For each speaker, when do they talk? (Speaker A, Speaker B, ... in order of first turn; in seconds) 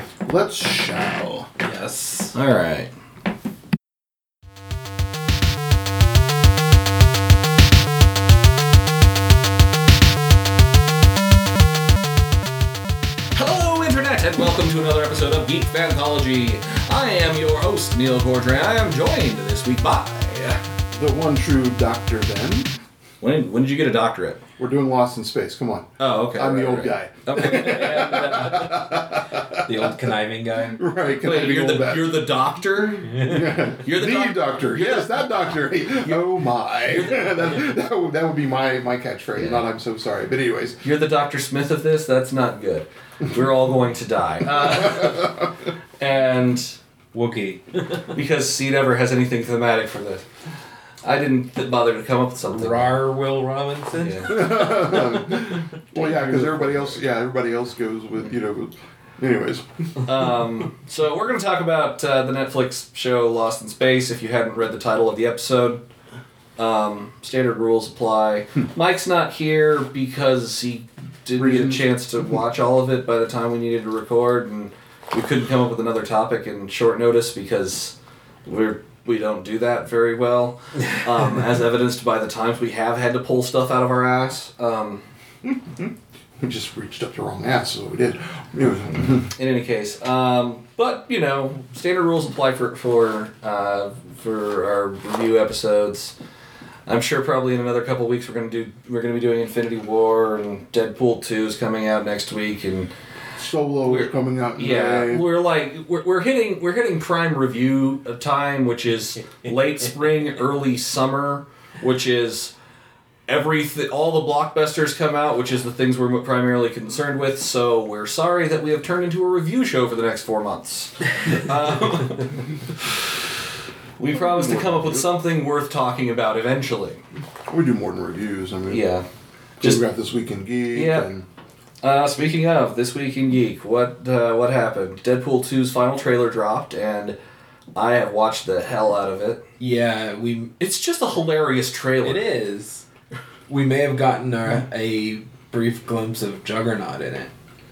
Speaker A: 0.2-1.5, 20.9-22.7, 24.6-29.9, 30.7-32.2, 33.2-40.8, 44.7-45.5, 54.3-60.3, 71.4-71.8, 85.4-89.3, 103.4-105.3, 124.1-125.0, 127.5-128.8, 129.6-131.2
Speaker B: 1.6-2.4, 27.5-28.8, 29.6-30.8, 33.0-33.6, 47.1-48.1, 52.5-55.3, 56.0-56.6, 139.6-140.5, 142.0-142.8, 143.5-147.3
Speaker C: 2.3-2.9, 13.3-20.6, 23.2-24.4, 26.0-28.7, 31.2-33.3, 33.8-35.3, 36.0-36.2, 36.8-37.5, 39.4-39.6, 40.8-45.4, 46.0-46.8, 48.1-50.2, 51.0-53.0, 54.0-54.8, 60.0-65.8, 66.6-85.0, 89.2-96.1, 96.9-102.9, 103.8-112.5, 113.3-123.1, 124.0-127.0, 128.7-129.1, 130.7-131.1, 131.8-137.2, 137.8-139.4, 140.6-142.3